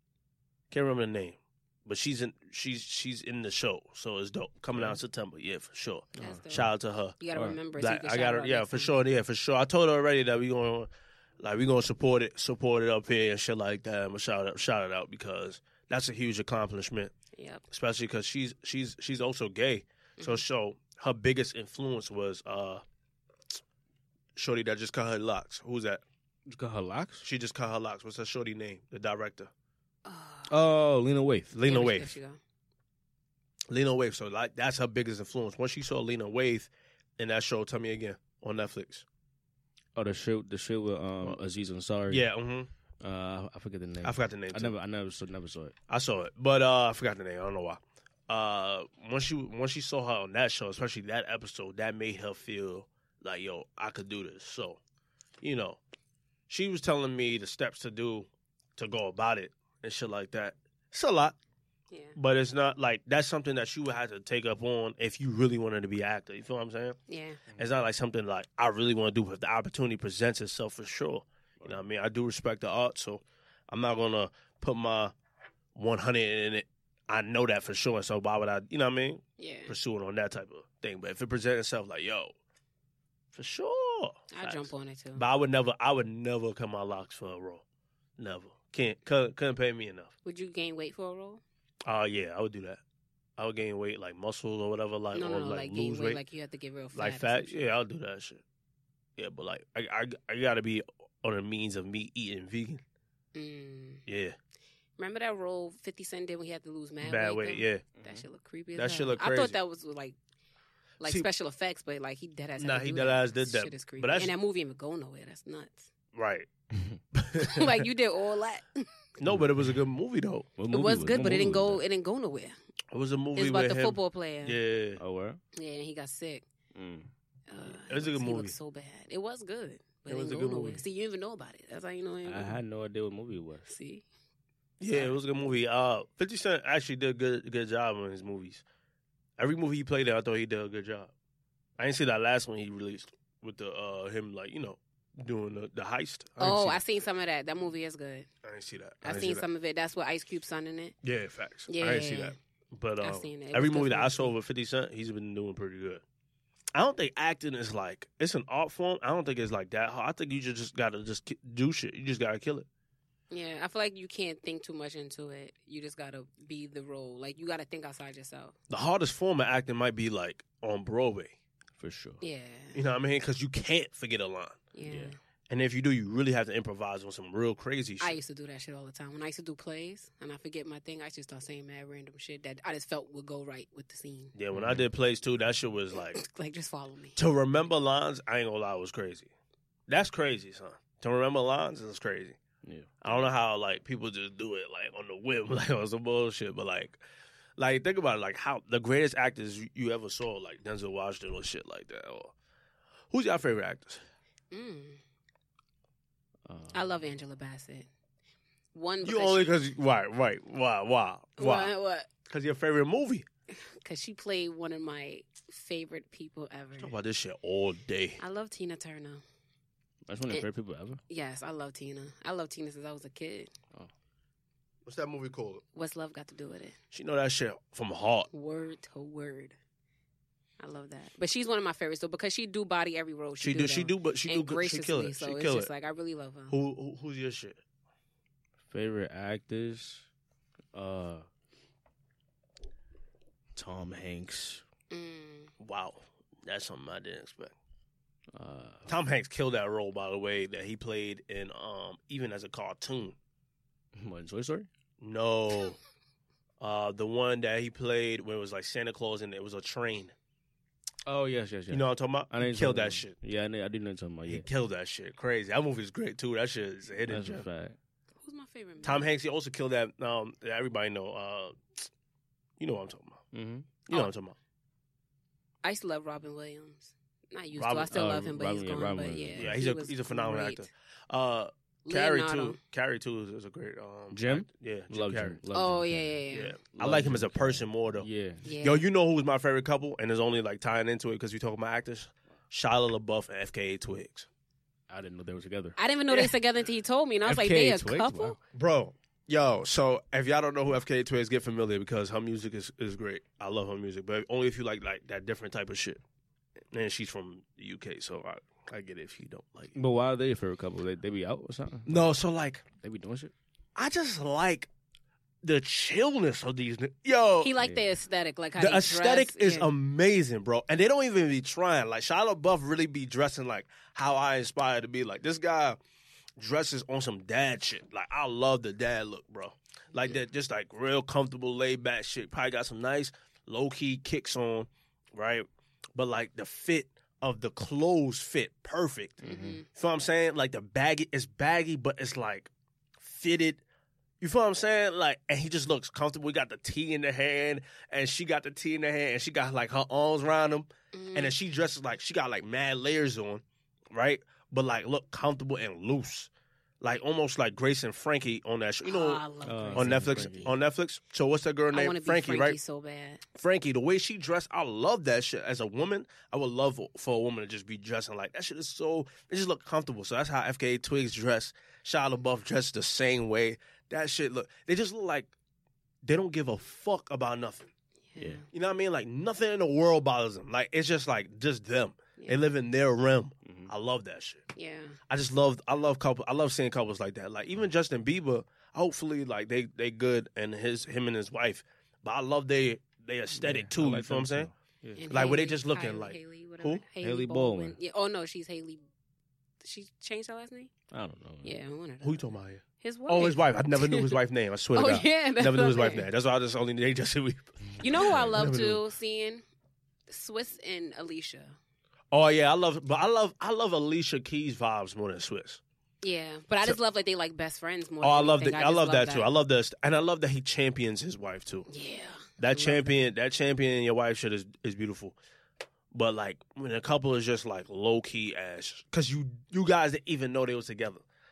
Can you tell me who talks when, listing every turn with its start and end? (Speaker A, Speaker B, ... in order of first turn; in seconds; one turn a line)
Speaker A: 0.7-7.2
Speaker B: 6.2-6.4
Speaker C: 6.2-8.9
Speaker A: 7.7-17.1
Speaker C: 17.4-17.6
Speaker A: 17.7-22.8
Speaker C: 20.2-20.4
Speaker A: 24.3-26.0
Speaker B: 26.5-27.2
Speaker A: 27.2-29.5
Speaker C: 30.1-30.5
Speaker B: 30.5-31.5
Speaker A: 31.5-32.2
Speaker C: 31.6-32.4
Speaker A: 33.7-39.0
Speaker B: 40.0-42.3
Speaker A: 42.1-42.7
Speaker B: 43.0-45.7
Speaker A: 44.0-44.7
Speaker A: 45.9-54.8
Speaker A: 55.4-55.8
Speaker A: 56.5-61.4
Speaker C: 61.9-62.1
Speaker A: 62.1-67.0
Speaker C: 67.1-67.4
Speaker A: 67.6-75.1
Speaker A: 75.7-82.3
Speaker C: 79.4-79.7
Speaker A: 83.3-87.6
Speaker C: 84.3-85.2
Speaker A: 88.2-90.1
Speaker C: 90.2-91.4
Speaker A: 91.8-92.8
Speaker A: 93.4-96.2
Speaker C: 95.1-97.7
Speaker A: 96.9-98.4
Speaker A: 99.2-102.8
Speaker C: 103.3-104.0
Speaker A: 104.0-104.4
Speaker C: 105.0-110.1
Speaker A: 107.0-107.8
Speaker B: 108.0-108.2
Speaker A: 108.7-109.5
Speaker C: 111.0-115.9
Speaker A: 111.0-111.3
Speaker A: 112.6-114.3
Speaker A: 116.1-116.5
Speaker A: 117.1-117.8
Speaker C: 117.4-118.9
Speaker A: 119.2-120.5
Speaker B: 120.6-121.8
Speaker C: 120.7-122.5
Speaker A: 122.9-125.0
Speaker C: 123.3-124.6
Speaker B: 125.0-125.4
Speaker C: 125.5-126.4
Speaker B: 126.7-127.1
Speaker C: 127.5-132.6
Speaker A: 127.7-128.6
Speaker A: 130.1-130.8
Speaker B: 132.2-133.7
Speaker C: 133.7-134.1
Speaker A: 134.8-138.6
Speaker A: 139.4-141.1
Speaker A: 141.8-146.8
Speaker C: 146.4-148.3
Speaker A: 148.4-149.4
Speaker C: 149.0-150.9
Speaker A: 151.0-156.0
Speaker C: 151.7-152.3
Speaker C: 153.0-154.3
Speaker A: 156.7-162.7
Speaker C: 163.3-168.5
Speaker A: 168.7-171.3
Speaker B: 171.8-172.2
Speaker C: 172.2-172.8
Speaker A: 172.7-174.6
Speaker C: 174.7-175.2
Speaker B: 174.9-175.1
Speaker A: 175.5-178.2
Speaker C: 178.0-184.3
Speaker A: 184.3-186.2
Speaker B: 184.5-184.8
Speaker C: 186.1-187.2
Speaker A: 187.2-189.3
Speaker A: 189.9-192.4
Speaker B: 192.6-193.1
Speaker A: 193.0-197.0
Speaker A: 197.6-202.3
Speaker A: 203.1-204.0
Speaker C: 204.5-205.0
Speaker B: 206.4-207.0
Speaker C: 206.7-207.9
Speaker C: 208.7-209.5
Speaker A: 209.0-211.7
Speaker C: 211.4-212.1
Speaker A: 212.3-213.3
Speaker C: 213.6-216.9
Speaker A: 216.8-218.2
Speaker C: 218.2-219.2
Speaker B: 220.1-221.0
Speaker C: 221.1-223.5
Speaker A: 224.8-225.6
Speaker C: 225.7-226.8
Speaker A: 226.9-228.3
Speaker C: 228.3-229.6
Speaker C: 230.6-236.6
Speaker A: 233.4-235.7
Speaker A: 236.5-237.6
Speaker B: 238.7-240.1
Speaker B: 240.7-241.2
Speaker B: 243.6-244.6
Speaker C: 244.9-245.5
Speaker A: 245.6-247.5
Speaker B: 248.3-248.9
Speaker A: 248.9-253.2
Speaker B: 253.9-254.7
Speaker A: 255.0-255.8
Speaker A: 256.6-260.1
Speaker B: 261.1-264.4
Speaker A: 261.7-263.1
Speaker A: 264.3-267.4
Speaker B: 267.1-267.8
Speaker C: 268.2-269.1
Speaker A: 268.8-271.9
Speaker A: 272.6-273.2
Speaker B: 273.3-273.7
Speaker A: 273.9-274.4
Speaker C: 275.6-280.7
Speaker A: 277.5-278.2
Speaker B: 277.9-279.5
Speaker A: 279.3-285.4
Speaker C: 281.9-282.6
Speaker B: 284.1-286.2
Speaker C: 285.5-286.6
Speaker A: 286.3-294.3
Speaker B: 286.7-288.4
Speaker C: 288.4-288.8
Speaker B: 294.9-295.8
Speaker C: 295.8-298.4
Speaker B: 297.2-298.4
Speaker A: 298.5-306.0
Speaker A: 306.7-309.7
Speaker B: 309.8-312.1
Speaker A: 311.9-312.6
Speaker B: 312.8-313.3
Speaker A: 313.8-314.7
Speaker A: 315.4-317.5
Speaker C: 317.4-319.7
Speaker A: 318.6-325.8
Speaker A: 326.4-343.6
Speaker C: 339.2-339.6
Speaker B: 339.2-339.6
Speaker A: 344.2-356.3
Speaker C: 350.9-351.3
Speaker A: 356.8-359.2
Speaker C: 358.8-360.5
Speaker B: 359.4-360.5
Speaker A: 359.7-362.6
Speaker C: 361.7-363.2
Speaker A: 363.3-375.3
Speaker A: 376.0-377.7
Speaker C: 378.1-378.4
Speaker A: 378.5-384.4
Speaker B: 383.4-383.7
Speaker C: 384.5-385.0
Speaker A: 385.1-394.5
Speaker B: 393.3-395.3
Speaker C: 395.0-398.8
Speaker A: 395.1-396.8
Speaker B: 397.0-397.8
Speaker C: 399.6-400.7
Speaker B: 400.9-401.6
Speaker C: 401.4-402.3
Speaker A: 402.0-408.8
Speaker C: 402.8-404.2
Speaker C: 404.7-406.1
Speaker C: 407.8-409.4
Speaker B: 408.0-408.4
Speaker C: 410.1-411.6
Speaker A: 412.1-415.6
Speaker C: 416.0-419.3
Speaker A: 418.0-421.7
Speaker C: 421.7-422.9
Speaker A: 422.4-425.2
Speaker A: 425.9-431.0